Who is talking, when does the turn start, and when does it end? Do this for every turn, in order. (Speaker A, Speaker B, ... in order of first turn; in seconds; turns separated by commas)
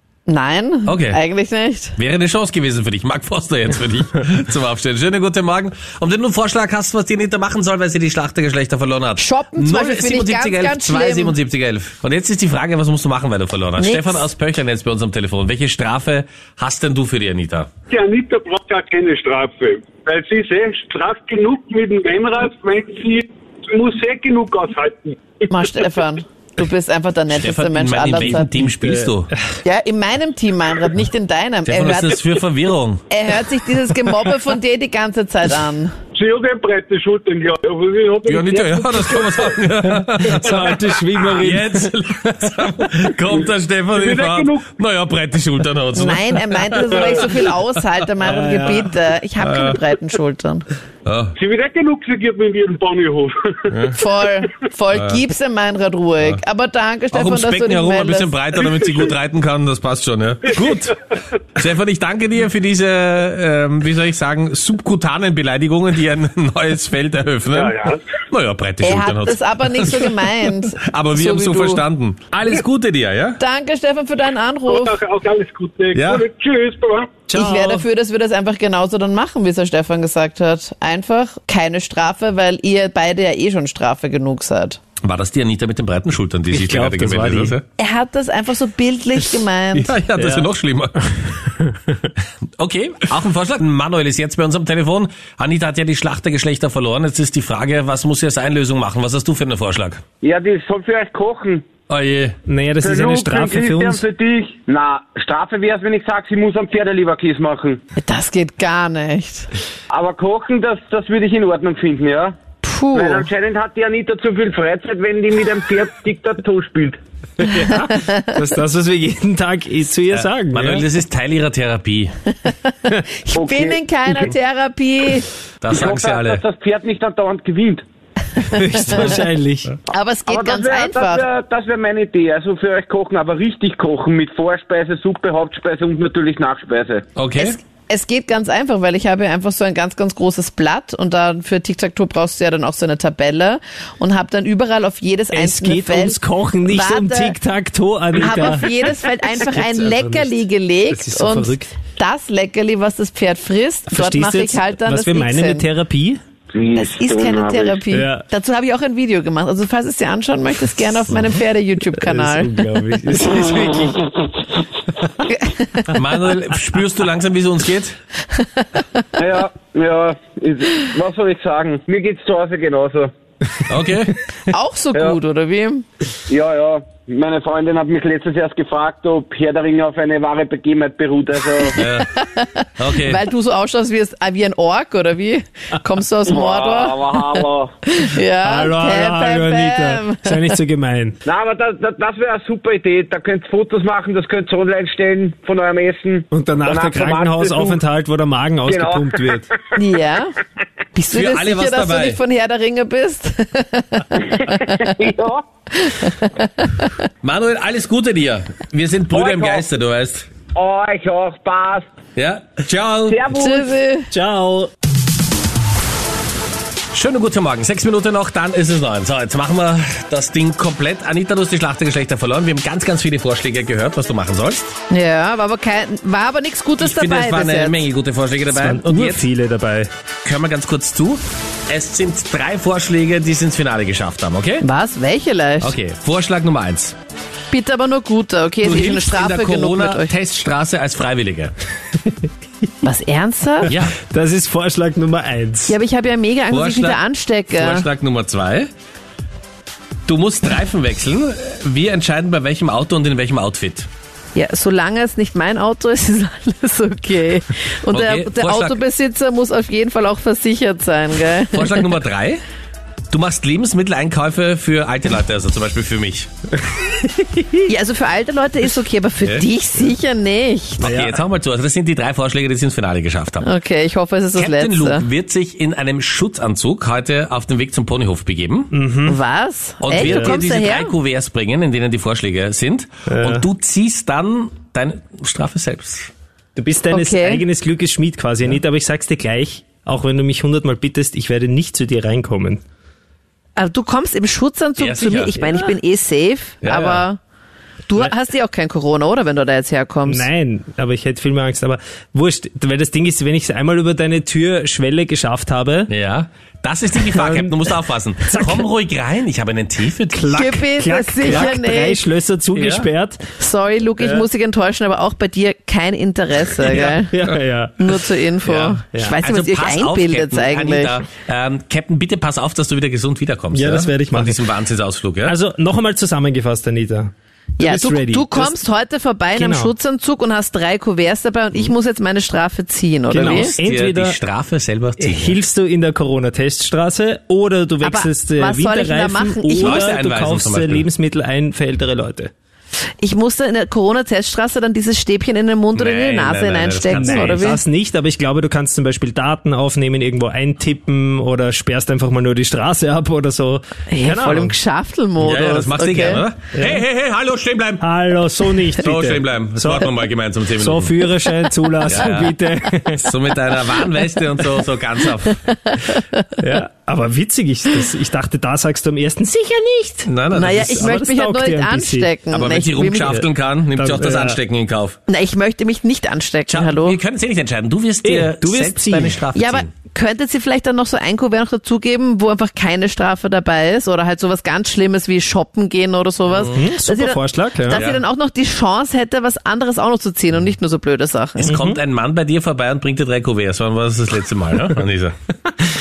Speaker A: 0.3-2.0, Speaker B: 0.9-1.2, Speaker B: 2.0-17.7, Speaker A: 9.2-11.4, Speaker A: 13.8-14.3, Speaker C: 17.9-25.8, Speaker A: 25.5-28.5, Speaker B: 27.3-29.3, Speaker D: 28.8-29.1, Speaker A: 29.6-32.2, Speaker B: 31.7-33.0, Speaker A: 33.1-35.9, Speaker C: 36.2-39.5, Speaker B: 38.3-47.5, Speaker D: 39.9-41.9, Speaker C: 44.0-44.6, Speaker A: 46.0-50.7, Speaker D: 48.2-48.9, Speaker B: 49.4-49.8, Speaker B: 51.0-51.4, Speaker C: 51.4-53.7, Speaker B: 53.7-54.0, Speaker A: 53.9-58.3, Speaker B: 54.9-55.2, Speaker B: 57.1-73.4, Speaker C: 67.5-68.0, Speaker A: 68.8-71.8, Speaker A: 73.4-75.0, Speaker C: 74.7-77.2, Speaker B: 75.9-76.3, Speaker D: 77.3-77.8, Speaker A: 77.3-84.8, Speaker B: 85.0-87.6, Speaker D: 86.5-87.5, Speaker A: 87.8-89.9, Speaker B: 89.8-91.0, Speaker D: 90.2-90.5, Speaker B: 92.6-100.0, Speaker E: 100.2-101.6, Speaker B: 101.9-102.4, Speaker D: 102.5-104.0, Speaker E: 102.8-107.8, Speaker A: 108.0-109.5, Speaker E: 109.9-112.3, Speaker A: 112.6-113.3, Speaker E: 112.9-117.0, Speaker D: 117.4-120.9, Speaker A: 117.5-118.2, Speaker B: 120.1-122.1, Speaker A: 123.2-125.3, Speaker E: 123.4-123.8, Speaker B: 125.6-126.4, Speaker E: 125.7-127.8, Speaker D: 128.4-129.7, Speaker A: 129.9-131.3, Speaker E: 130.3-137.0, Speaker B: 137.2-137.6, Speaker A: 137.4-147.4, Speaker D: 145.3-148.7, Speaker A: 148.2-155.7, Speaker D: 149.3-150.3, Speaker D: 150.9-151.8, Speaker D: 153.9-156.2, Speaker E: 156.5-157.8, Speaker A: 156.7-162.5, Speaker D: 157.9-158.2, Speaker D: 162.0-164.0, Speaker A: 165.3-165.9, Speaker B: 165.9-168.0, Speaker A: 168.4-168.8, Speaker E: 169.2-173.1, Speaker B: 173.7-174.2, Speaker A: 174.5-175.8, Speaker E: 176.3-181.8, Speaker B: 181.8-182.1, Speaker A: 182.0-190.6, Speaker B: 182.8-183.2, Speaker E: 186.3-187.7, Speaker D: 188.4-191.2, Speaker E: 191.2-197.8, Speaker D: 196.3-199.5, Speaker E: 198.7-199.4, Speaker A: 199.8-200.3, Speaker A: 200.9-204.8, Speaker B: 201.1-202.2, Speaker E: 204.3-205.4, Speaker A: 205.7-207.0, Speaker B: 207.2-210.3, Speaker E: 209.1-209.7, Speaker E: 210.5-211.9, Speaker B: 212.2-213.2, Speaker E: 213.1-213.7, Speaker A: 213.3-214.1, Speaker D: 214.1-214.7, Speaker B: 216.9-224.7, Speaker A: 224.9-227.9, Speaker B: 226.8-229.2, Speaker D: 228.5-229.9, Speaker B: 230.2-234.7, Speaker A: 234.6-235.8, Speaker B: 235.6-236.9, Speaker A: 237.5-240.1, Speaker B: 238.6-241.5, Speaker A: 242.8-243.7, Speaker B: 243.7-243.9, Speaker D: 243.9-245.8, Speaker A: 245.7-247.9, Speaker B: 246.5-247.0, Speaker B: 247.5-248.7, Speaker B: 250.1-253.9, Speaker A: 254.3-261.9, Speaker B: 257.9-258.8, Speaker B: 261.5-262.4, Speaker B: 263.1-266.3, Speaker A: 267.7-270.9, Speaker B: 270.8-273.5, Speaker D: 270.8-271.2, Speaker A: 273.4-275.1, Speaker B: 274.4-278.7, Speaker D: 278.7-279.2, Speaker A: 279.1-280.9, Speaker B: 279.8-286.1, Speaker D: 279.9-280.4, Speaker D: 283.1-283.5, Speaker D: 286.6-292.6, Speaker A: 286.9-287.4, Speaker A: 293.6-297.2, Speaker B: 294.8-295.6, Speaker B: 296.6-297.1, Speaker A: 297.9-300.3, Speaker D: 300.1-305.9, Speaker B: 305.9-310.3, Speaker D: 307.1-307.7, Speaker D: 308.2-308.7, Speaker D: 310.1-313.2, Speaker A: 310.3-312.0, Speaker B: 311.2-311.6, Speaker B: 312.5-312.9, Speaker A: 313.4-317.1, Speaker D: 314.0-314.2, Speaker B: 316.7-317.0, Speaker D: 317.1-317.8, Speaker A: 317.8-321.0, Speaker B: 318.4-325.4, Speaker D: 323.5-324.4, Speaker D: 325.3-328.6, Speaker A: 327.6-333.5, Speaker D: 329.4-329.7, Speaker D: 333.1-334.2, Speaker B: 333.2-335.4, Speaker D: 335.0-342.3, Speaker A: 337.8-339.9, Speaker B: 339.6-340.9, Speaker A: 343.0-347.6, Speaker B: 345.8-347.6, Speaker D: 347.0-354.6, Speaker A: 353.9-356.2, Speaker B: 355.2-357.8, Speaker D: 356.5-356.8, Speaker D: 357.8-359.9, Speaker B: 358.8-360.9, Speaker D: 360.6-363.1, Speaker B: 361.9-362.3, Speaker B: 363.0-365.4, Speaker A: 365.7-366.3, Speaker D: 366.4-372.1, Speaker B: 370.1-370.7, Speaker A: 370.3-373.2, Speaker B: 372.3-375.0, Speaker D: 373.1-374.4, Speaker A: 375.1-377.0, Speaker B: 376.5-379.7, Speaker D: 378.0-379.2, Speaker A: 379.4-391.5, Speaker B: 386.3-386.7, Speaker D: 386.5-387.8, Speaker B: 387.7-388.0, Speaker B: 391.4-395.1, Speaker D: 391.4-391.8